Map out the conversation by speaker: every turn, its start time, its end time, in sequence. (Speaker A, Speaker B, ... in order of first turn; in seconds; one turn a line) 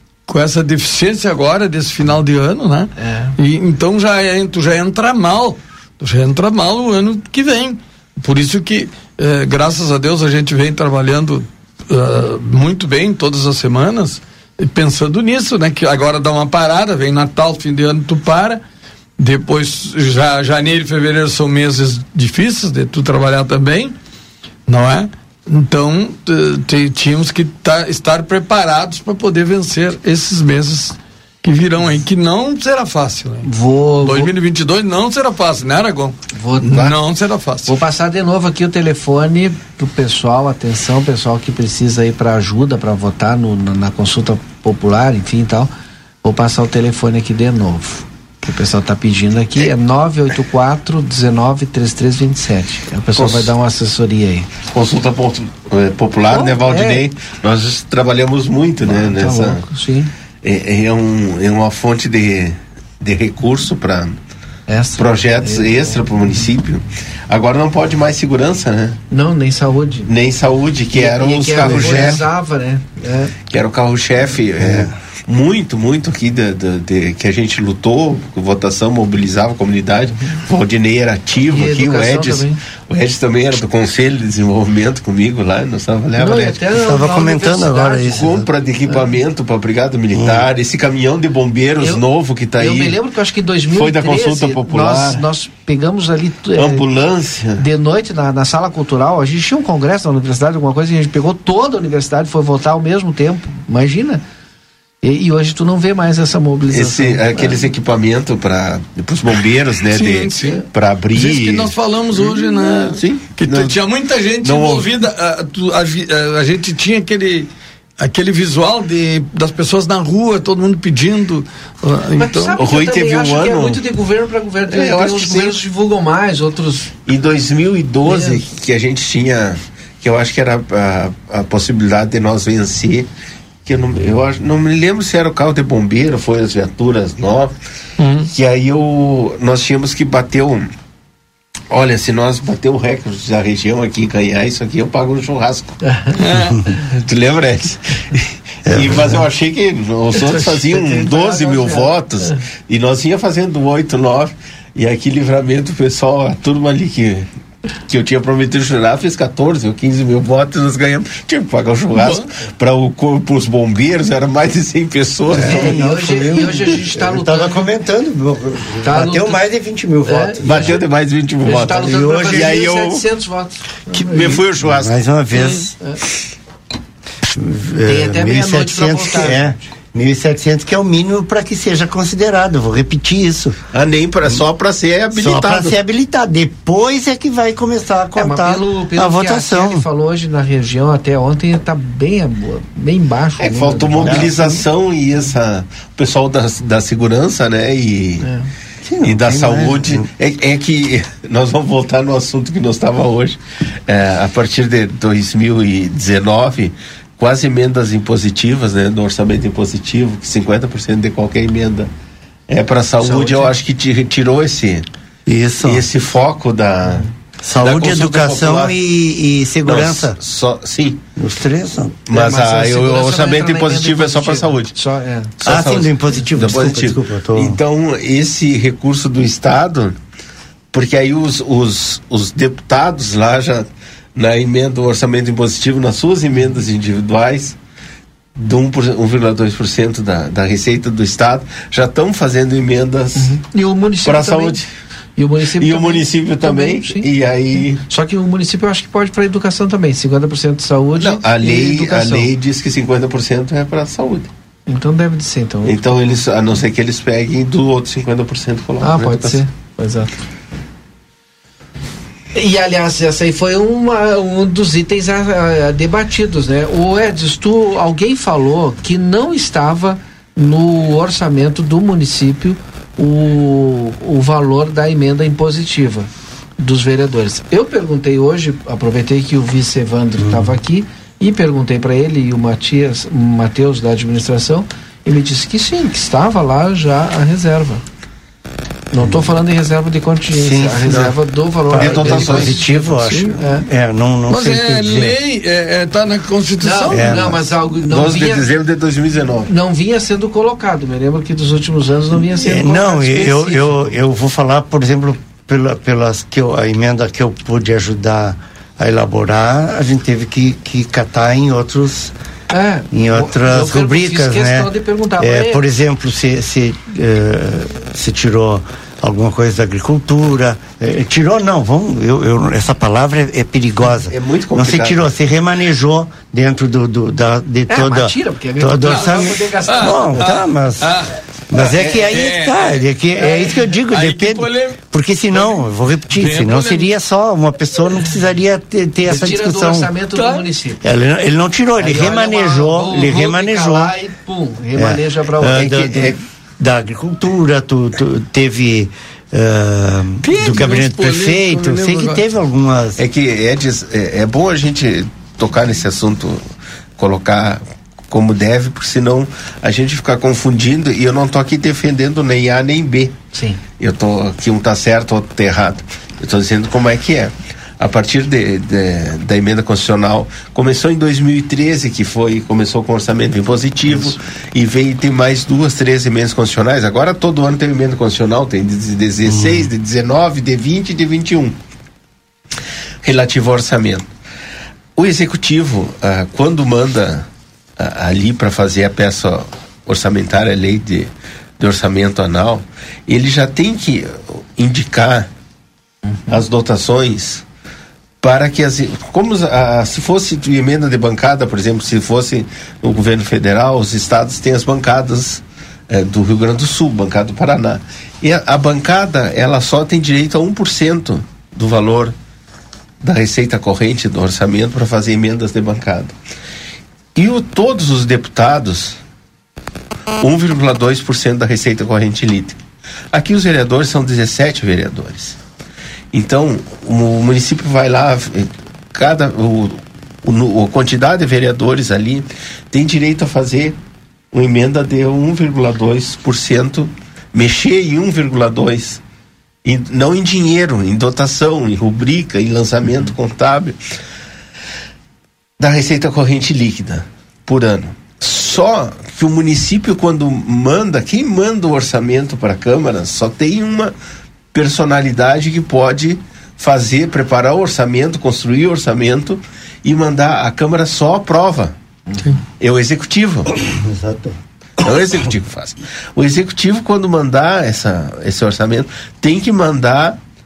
Speaker A: 0.3-18.6
Speaker B: 3.0-3.4
Speaker A: 19.2-23.9
Speaker A: 24.7-33.5
Speaker B: 33.4-34.3
Speaker A: 34.0-37.7
Speaker B: 36.4-36.9
Speaker B: 37.6-45.7
Speaker B: 46.2-54.5
Speaker C: 53.1-53.5
Speaker C: 54.7-59.6
Speaker B: 56.3-57.0
Speaker B: 58.9-60.1
Speaker C: 60.4-64.2
Speaker B: 64.7-66.4
Speaker C: 65.0-69.0
Speaker B: 69.1-70.1
Speaker C: 70.0-72.2
Speaker B: 70.9-73.3
Speaker D: 71.6-72.1
Speaker C: 73.5-86.6
Speaker D: 74.6-74.9
Speaker B: 81.5-82.6
Speaker B: 86.2-88.2
Speaker D: 86.7-88.5
Speaker C: 88.1-93.0
Speaker D: 90.1-90.5
Speaker B: 92.5-96.8
Speaker C: 93.7-95.2
Speaker C: 96.5-97.6
Speaker B: 97.6-104.2
Speaker B: 105.0-107.7
Speaker C: 106.7-111.7
Speaker A: 109.9-110.6
Speaker A: 111.1-117.5
Speaker C: 112.3-113.8
Speaker C: 114.4-114.9
Speaker A: 118.0-122.6
Speaker B: 122.2-126.9
Speaker C: 122.6-123.8
Speaker C: 124.7-125.6
Speaker C: 127.1-133.1
Speaker B: 128.0-128.4
Speaker C: 133.6-137.5
Speaker A: 138.0-138.3
Speaker C: 138.3-140.7
Speaker C: 141.7-145.8
Speaker B: 145.8-146.2
Speaker A: 146.2-146.5
Speaker C: 146.9-157.3
Speaker D: 148.7-149.2
Speaker A: 150.2-150.6
Speaker B: 150.7-151.9
Speaker C: 157.9-165.8
Speaker A: 161.9-162.2
Speaker D: 165.3-170.8
Speaker B: 165.4-167.7
Speaker B: 168.8-169.4
Speaker B: 170.0-170.8
Speaker C: 170.4-173.1
Speaker B: 171.4-174.4
Speaker D: 171.7-172.5
Speaker C: 173.9-175.0
Speaker D: 174.6-175.7
Speaker D: 177.3-183.6
Speaker B: 177.8-179.6
Speaker C: 183.7-185.7
Speaker D: 185.1-189.9
Speaker B: 188.2-194.6
Speaker C: 193.4-198.3
Speaker D: 194.0-194.3
Speaker B: 198.2-198.5
Speaker D: 198.8-200.1
Speaker C: 199.0-211.9
Speaker B: 199.2-199.8
Speaker C: 212.5-214.9
Speaker B: 213.0-213.5
Speaker D: 215.2-215.8
Speaker C: 215.6-217.1
Speaker D: 217.4-220.2
Speaker C: 217.6-218.8
Speaker C: 219.6-221.0
Speaker D: 221.2-222.0
Speaker C: 222.1-224.7
Speaker B: 222.1-225.3
Speaker C: 225.4-230.0
Speaker D: 225.4-227.6
Speaker C: 230.7-237.6
Speaker C: 238.4-243.3
Speaker B: 243.2-244.6
Speaker C: 244.0-244.7
Speaker B: 245.2-247.1
Speaker C: 245.6-247.8
Speaker B: 247.7-252.3
Speaker C: 251.0-254.3
Speaker B: 254.7-256.2
Speaker C: 255.6-259.4
Speaker B: 258.8-260.2
Speaker B: 262.3-276.1
Speaker B: 276.6-287.8
Speaker D: 280.2-280.5
Speaker B: 288.9-293.6
Speaker D: 290.3-291.1
Speaker D: 291.7-295.1
Speaker C: 291.7-292.6
Speaker A: 293.0-293.4
Speaker A: 294.3-297.1
Speaker B: 296.6-298.5
Speaker D: 296.9-297.4
Speaker C: 297.9-299.5
Speaker B: 299.4-303.9
Speaker D: 302.4-312.1
Speaker B: 312.5-315.6
Speaker D: 312.9-330.9
Speaker C: 324.1-325.1
Speaker B: 327.7-330.2
Speaker A: 328.9-334.8
Speaker D: 331.5-339.9
Speaker A: 335.4-335.6
Speaker A: 336.1-336.9
Speaker B: 339.0-340.8
Speaker A: 340.1-340.4
Speaker D: 340.8-343.9
Speaker B: 341.8-346.1
Speaker D: 344.8-353.0
Speaker C: 345.5-346.1
Speaker A: 350.2-352.2
Speaker C: 353.0-356.4
Speaker C: 357.0-363.1
Speaker B: 363.3-363.6
Speaker C: 363.8-381.6
Speaker D: 379.2-379.7
Speaker C: 383.0-384.1
Speaker C: 384.9-395.3
Speaker C: 396.3-397.4
Speaker C: 398.2-412.1
Speaker C: 413.0-416.1
Speaker C: 417.1-419.0
Speaker C: 420.2-422.6
Speaker C: 423.1-425.4
Speaker C: 426.1-433.8
Speaker C: 434.3-439.0
Speaker C: 439.6-443.8
Speaker C: 445.6-453.9
Speaker C: 454.5-461.7
Speaker C: 462.6-463.5
Speaker D: 463.6-464.4
Speaker C: 464.8-470.2